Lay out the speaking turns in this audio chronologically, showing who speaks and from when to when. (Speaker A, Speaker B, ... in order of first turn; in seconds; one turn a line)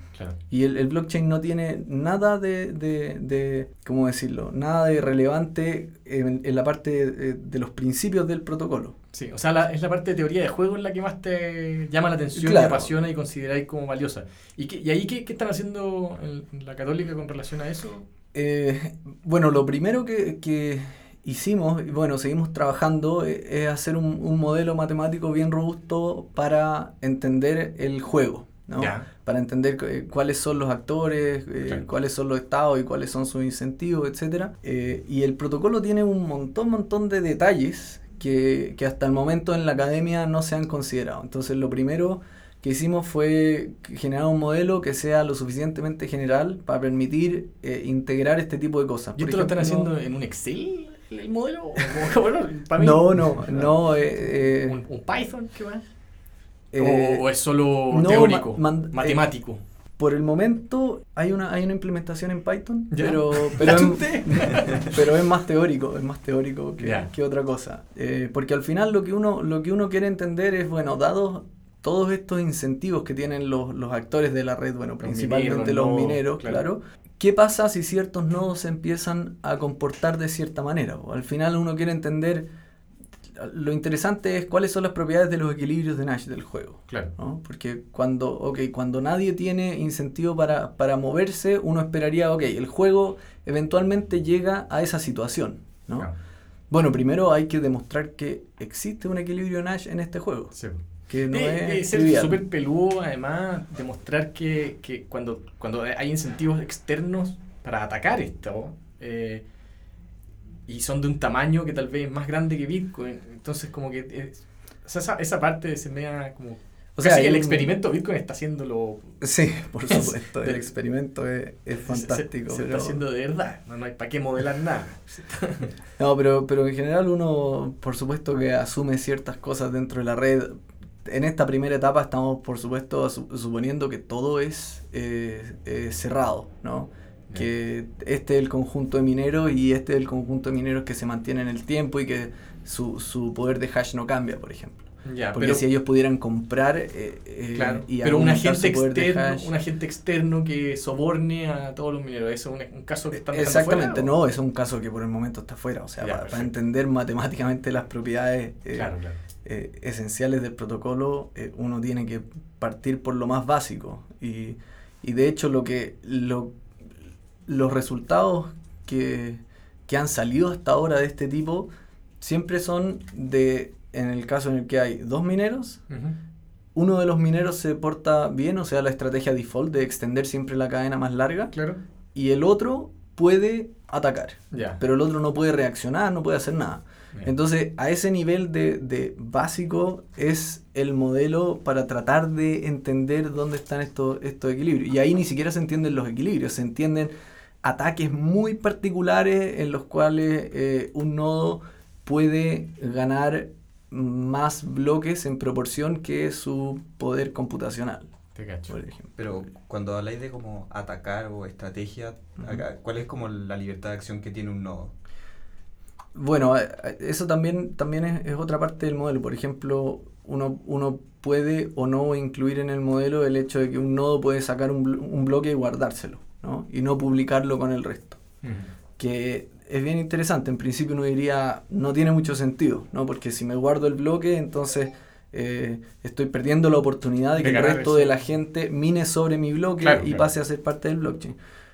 Speaker A: 0.5-9.0
Speaker B: 9.1-18.1
Speaker A: 12.3-12.9
Speaker A: 18.3-49.9
Speaker B: 28.8-29.1
Speaker B: 49.2-55.9
Speaker A: 52.8-54.8
Speaker A: 56.7-57.3
Speaker B: 56.8-59.6
Speaker A: 57.9-59.3
Speaker A: 60.0-82.5
Speaker B: 62.9-65.0
Speaker B: 66.8-67.1
Speaker B: 75.0-76.6
Speaker A: 83.3-96.1
Speaker A: 96.7-100.5
Speaker B: 100.5-109.4
Speaker A: 101.1-102.4
Speaker B: 110.7-119.2
Speaker A: 117.0-117.7
Speaker A: 119.2-123.0
Speaker B: 119.9-120.7
Speaker B: 121.8-125.7
Speaker A: 126.0-130.5
Speaker A: 131.1-149.5
Speaker B: 145.1-145.7
Speaker B: 147.6-154.1
Speaker A: 153.1-166.6
Speaker B: 156.0-156.5
Speaker B: 158.7-159.2
Speaker A: 167.5-171.7
Speaker A: 172.2-175.8
Speaker B: 175.9-176.2
Speaker A: 176.8-181.5
Speaker B: 181.5-181.8
Speaker A: 182.2-197.1
Speaker B: 184.5-184.8
Speaker A: 197.6-208.1
Speaker B: 208.3-208.8
Speaker A: 208.7-209.3
Speaker C: 209.2-214.9
Speaker A: 216.2-228.2
Speaker B: 228.4-228.7
Speaker A: 229.0-241.3
Speaker B: 237.4-238.2
Speaker B: 239.8-240.3